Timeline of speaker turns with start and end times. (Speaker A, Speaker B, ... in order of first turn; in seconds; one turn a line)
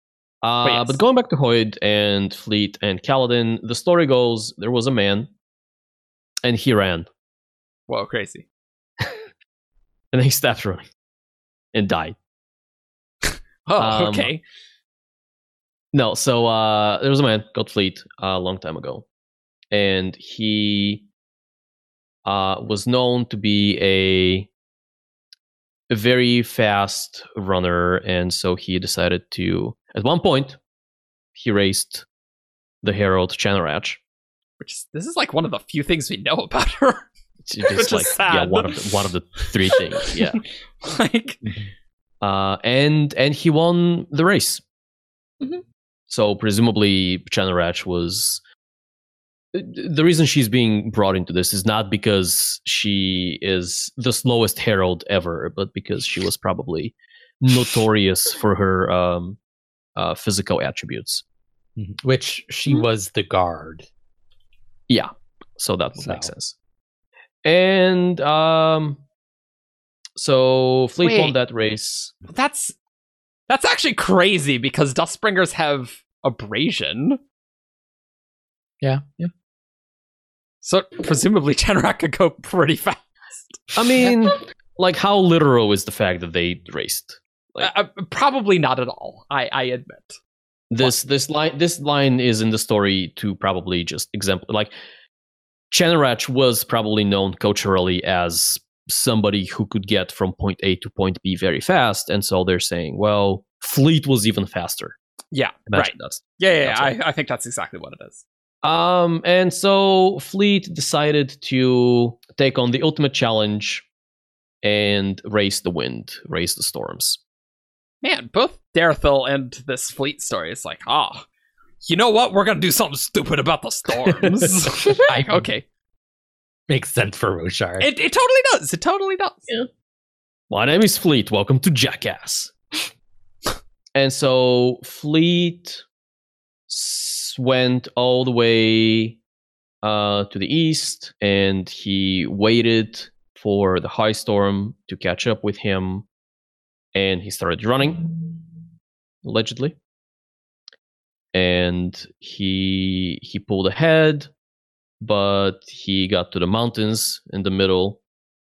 Speaker A: 0.4-5.3
Speaker B: 0.6-1.0
Speaker A: 6.4-7.1
Speaker B: 7.9-8.4
Speaker A: 10.1-10.8
Speaker A: 11.7-12.2
Speaker B: 13.7-14.4
Speaker A: 13.8-14.3
Speaker A: 15.9-19.1
Speaker A: 19.7-21.1
Speaker A: 22.2-24.5
Speaker A: 25.9-30.6
Speaker A: 31.4-32.0
Speaker A: 32.8-34.0
Speaker B: 34.6-37.1
Speaker A: 37.5-40.4
Speaker B: 37.7-38.8
Speaker B: 39.8-41.4
Speaker A: 42.2-44.6
Speaker A: 46.1-48.4
Speaker A: 49.5-59.4
Speaker A: 60.0-61.2
Speaker C: 61.8-63.9
Speaker A: 64.9-66.5
Speaker C: 66.0-66.3
Speaker A: 67.4-69.0
Speaker A: 70.2-72.1
Speaker B: 71.0-71.3
Speaker B: 72.3-72.8
Speaker B: 73.5-77.2
Speaker C: 78.8-79.2
Speaker B: 80.6-83.6
Speaker A: 83.8-87.7
Speaker B: 87.6-90.2
Speaker A: 90.7-94.7
Speaker A: 95.7-105.0
Speaker B: 105.3-108.2
Speaker A: 105.7-106.9
Speaker A: 108.6-113.8
Speaker A: 114.6-117.2
Speaker B: 118.0-121.3
Speaker B: 121.8-125.7
Speaker C: 125.0-125.5
Speaker C: 126.7-127.9
Speaker B: 127.8-129.5
Speaker A: 130.5-132.5
Speaker A: 133.9-135.8
Speaker A: 136.7-139.2
Speaker A: 139.8-146.1
Speaker A: 146.9-148.4
Speaker A: 149.2-149.8
Speaker A: 151.3-154.3
Speaker A: 155.0-158.0